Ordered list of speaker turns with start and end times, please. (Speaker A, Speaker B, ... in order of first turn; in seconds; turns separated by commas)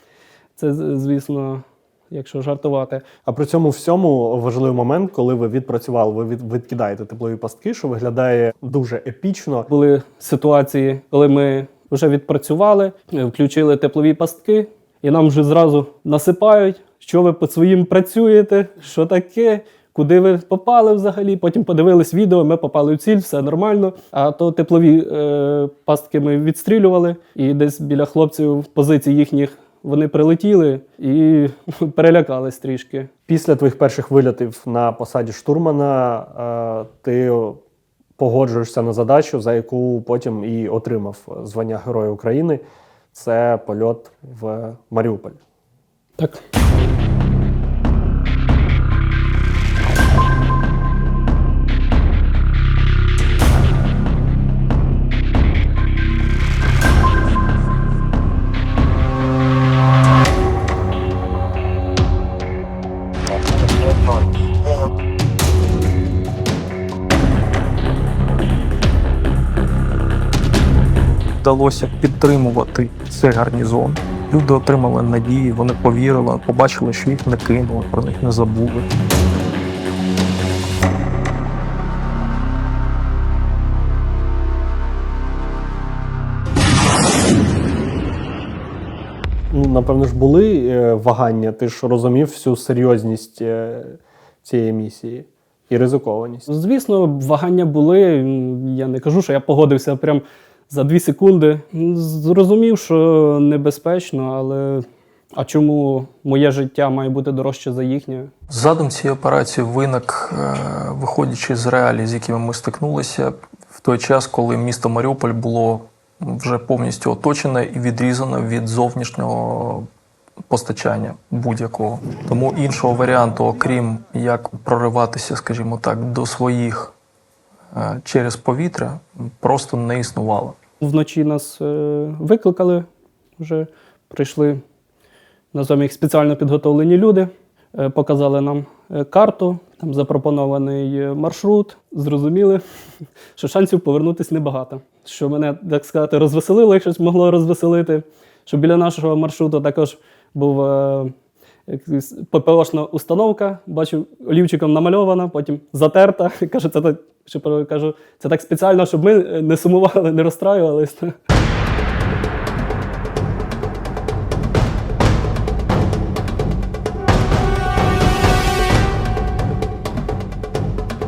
Speaker A: 0.6-3.0, Speaker B: 3.3-9.7, Speaker A: 9.7-33.1, Speaker B: 33.3-37.6, Speaker B: 38.2-42.6, Speaker B: 43.1-45.4, Speaker C: 71.4-78.9, Speaker B: 89.5-96.5, Speaker A: 96.5-108.3, Speaker C: 108.5-119.9, Speaker C: 120.5-126.9, Speaker C: 127.7-130.6, Speaker A: 130.8-132.8, Speaker A: 133.4-134.6, Speaker A: 135.5-142.6, Speaker A: 143.3-151.1, Speaker A: 151.7-161.1